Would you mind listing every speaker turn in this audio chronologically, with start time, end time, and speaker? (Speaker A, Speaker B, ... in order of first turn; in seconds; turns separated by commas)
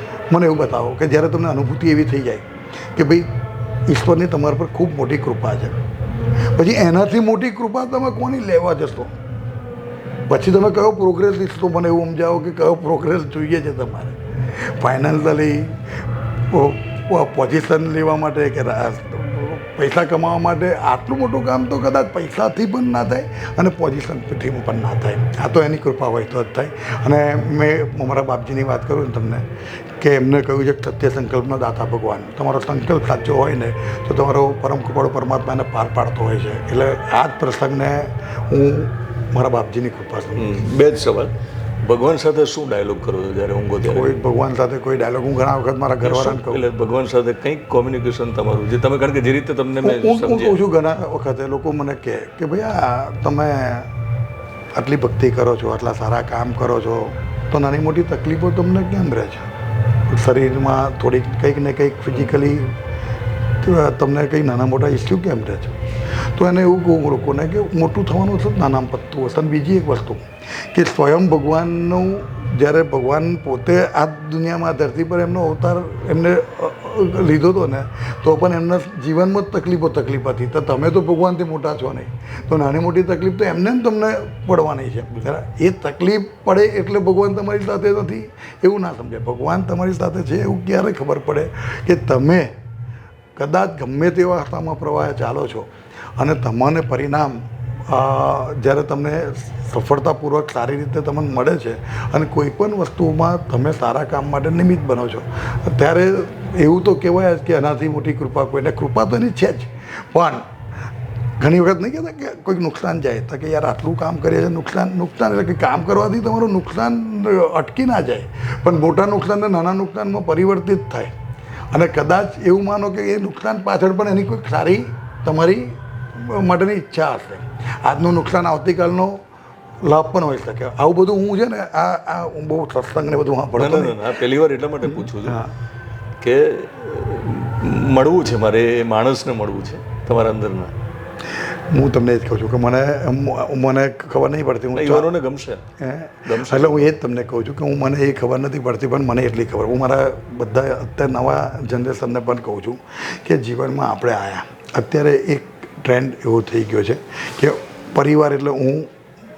Speaker A: 0.3-5.8, Speaker A: 6.5-9.1, Speaker A: 10.3-40.5, Speaker B: 40.3-41.3, Speaker B: 41.8-44.1, Speaker A: 43.8-46.6, Speaker B: 46.0-50.6, Speaker A: 49.8-53.9, Speaker A: 54.7-59.5, Speaker A: 60.1-62.7, Speaker A: 63.6-92.5, Speaker A: 93.4-110.5, Speaker A: 111.4-121.1, Speaker A: 121.7-129.2, Speaker A: 129.8-134.0, Speaker B: 133.6-135.4, Speaker A: 134.8-135.5, Speaker B: 136.2-140.7, Speaker A: 141.3-145.1, Speaker B: 144.7-145.6, Speaker A: 145.8-158.9, Speaker B: 146.2-146.9